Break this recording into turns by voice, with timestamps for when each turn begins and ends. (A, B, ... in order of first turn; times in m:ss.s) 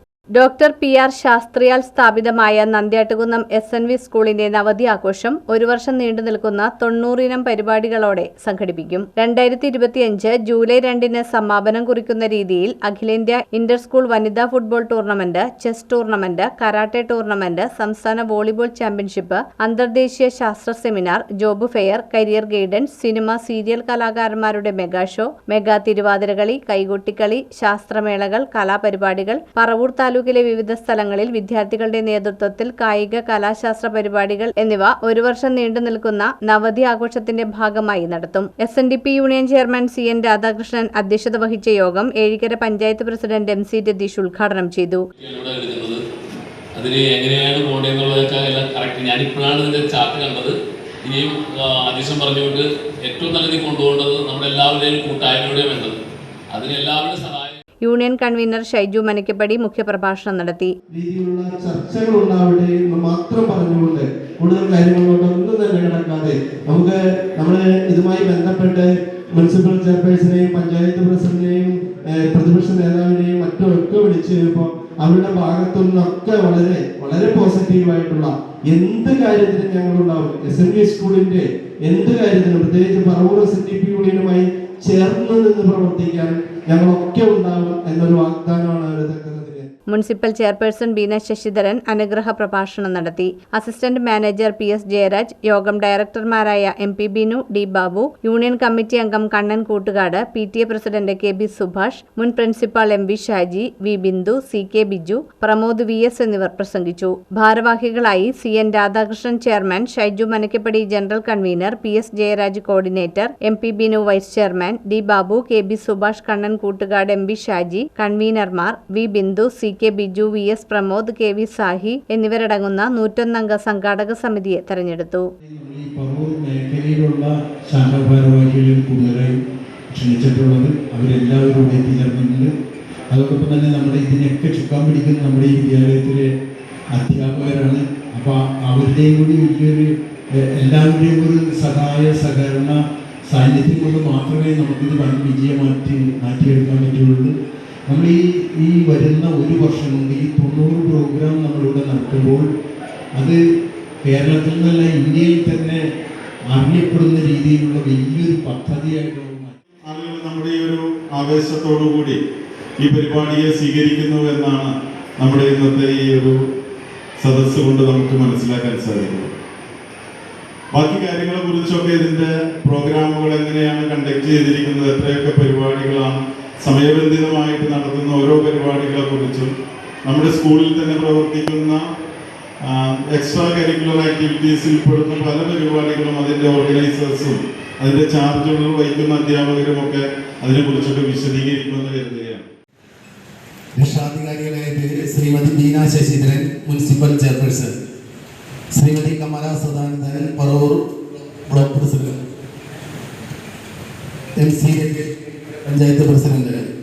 0:00.3-0:45.0 A
0:45.2-0:46.0 B
0:46.7-0:56.0 B
0:56.5-0:57.6 B
0:57.8-1:00.7 A
1:00.9-1:29.7 C
1:29.9-2:05.3 A
2:05.4-2:12.5 D
2:13.1-2:16.3 D
2:16.9-2:32.5 D
2:33.1-2:33.4 D
2:34.0-2:35.8 D
2:36.5-2:39.6 D
2:39.8-2:42.2 E
2:42.8-2:46.3 E
2:47.2-2:49.3 E
2:50.7-2:59.5 E
3:00.0-3:01.8 E
3:02.6-3:12.5 E
3:13.7-3:17.8 F
3:18.7-3:22.2 F
3:24.4-3:25.1 F
3:25.6-3:26.6 F